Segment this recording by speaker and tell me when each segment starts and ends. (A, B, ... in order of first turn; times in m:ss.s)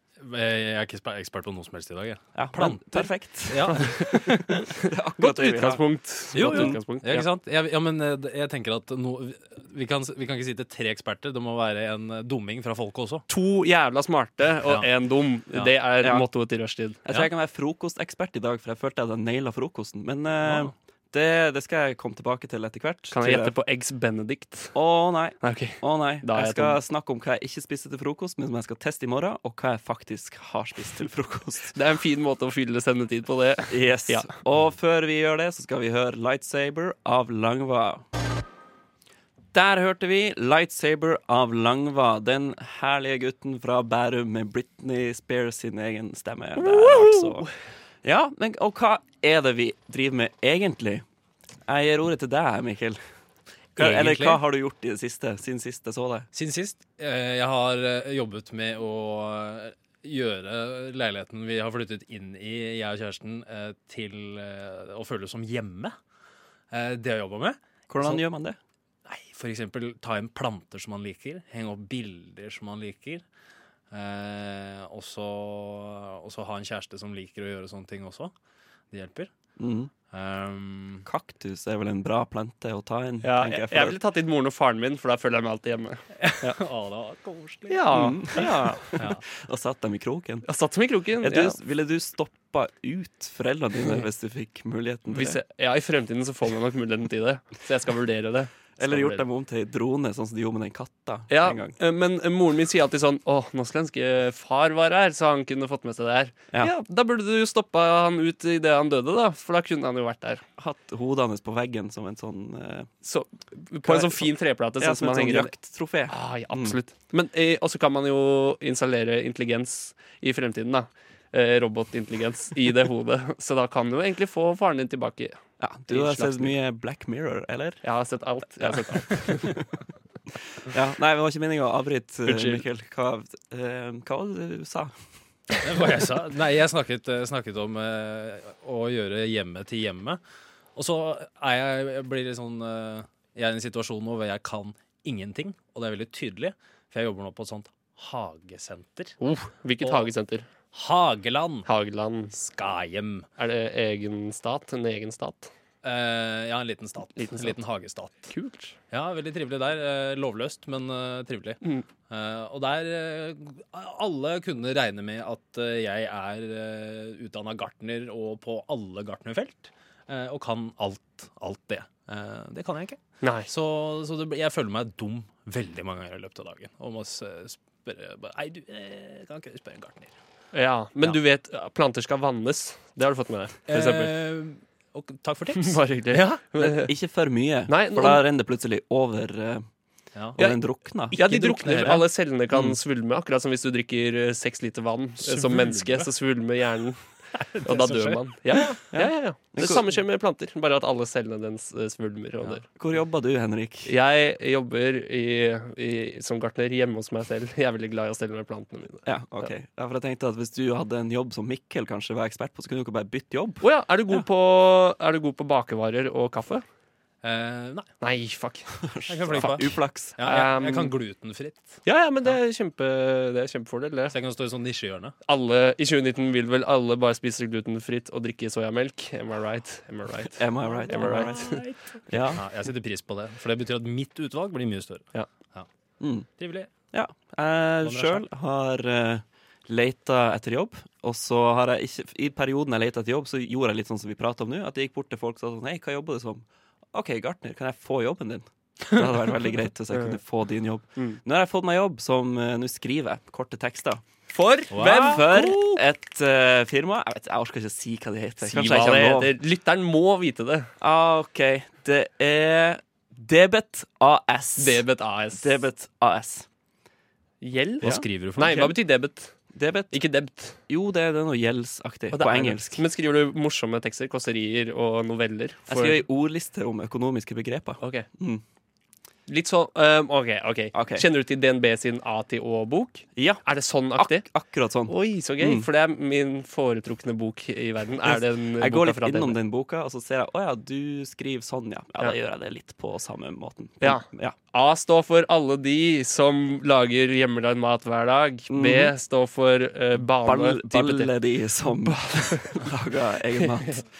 0:00.2-0:04.6 A
0:02.3-0:04.0 B
0:04.8-0:05.8 B
0:05.2-0:07.3 C
0:06.3-0:13.2 A
0:06.4-0:06.8 B
0:13.3-0:17.0 C
0:17.0-0:23.5 B
0:20.4-0:20.7 A
0:23.1-0:24.8 C
0:24.7-0:31.7 B
0:25.4-0:26.8 C
0:31.7-0:34.3 C
0:33.7-0:38.0 B
0:39.5-0:47.5 B
0:46.6-0:47.5 C
0:48.0-0:51.0 B
0:51.7-0:53.0 B
0:53.8-0:54.4 A
0:53.8-0:56.3 B
0:56.3-1:05.9 A
1:06.7-1:08.2 A
1:07.9-1:08.6 B
1:09.0-1:13.2 A
1:13.9-1:18.3 A
1:18.9-1:19.3 A
1:19.6-1:19.9 B
1:20.1-1:21.0 A
1:21.0-1:24.0 B
1:23.2-1:26.6 C
1:26.2-1:27.9 A
1:27.7-1:28.9 C
1:27.9-1:30.5 B
1:30.4-1:31.6 C
1:31.2-1:35.4 B
1:35.1-1:39.2 C
1:38.8-1:41.7 B
1:41.3-1:50.4 C
1:50.6-1:52.9 B
1:53.0-1:55.5 C
1:53.8-1:56.8 B
1:56.1-2:05.4 C
2:05.6-2:07.8 B
2:05.9-2:06.5 C
2:07.8-2:09.6 C
2:10.6-2:15.0 B
2:12.3-2:12.6 A
2:15.6-2:20.2 A
2:20.8-2:29.2 A
2:29.2-2:30.5 C
2:29.8-2:30.1 A
2:30.7-2:31.7 A
2:31.6-2:32.3 C
2:32.3-2:33.3 A
2:33.4-2:35.5 C
2:35.8-2:38.3 A
2:37.2-2:37.6 C
2:38.3-2:38.7 C
2:38.9-3:00.1 A
2:53.2-2:53.5 C
3:00.5-3:04.1 C
3:03.7-3:06.4 A
3:05.5-3:06.9 C
3:06.6-3:09.6 B
3:07.7-3:08.2 C
3:10.4-3:11.1 B
3:11.1-3:12.0 A
3:11.1-3:17.0 C
3:15.2-3:16.1 A
3:17.3-3:18.6 A
3:17.6-3:22.6 C
3:18.9-3:19.8 B
3:22.8-3:23.9 B
3:23.8-3:29.5 C
3:29.0-3:33.6 B
3:33.6-3:36.6 C
3:37.2-3:37.8 A
3:38.0-3:40.9 C
3:38.8-3:40.1 B
3:39.1-3:41.8 A
3:41.8-3:44.1 C
3:44.1-3:45.1 A
3:45.2-3:51.6 C
3:50.3-3:52.4 B
3:50.9-3:51.8 A
3:52.3-3:55.7 A
3:56.0-3:56.3 B
3:56.4-3:56.7 A
3:56.9-4:14.0 B
3:57.8-3:58.2 A
4:09.9-4:10.2 C
4:14.3-4:15.8 C
4:14.7-4:15.2 A
4:14.7-4:19.3 B
4:18.4-4:20.7 C
4:20.8-4:24.8 B
4:24.6-4:25.6 C
4:25.4-4:26.5 B
4:27.4-4:30.6 C
4:27.8-4:28.7 A
4:29.5-4:30.0 B
4:30.7-4:32.8 B
4:32.1-4:36.0 C
4:35.7-4:38.4 B
4:37.8-4:38.1 C
4:39.3-4:44.3 C
4:40.7-4:41.0 B
4:43.2-4:43.4 B
4:44.0-4:45.6 B
4:44.9-4:49.4 C
4:48.0-4:54.4 B
4:53.8-5:01.1 C
4:58.5-4:58.9 B
5:00.2-5:03.8 B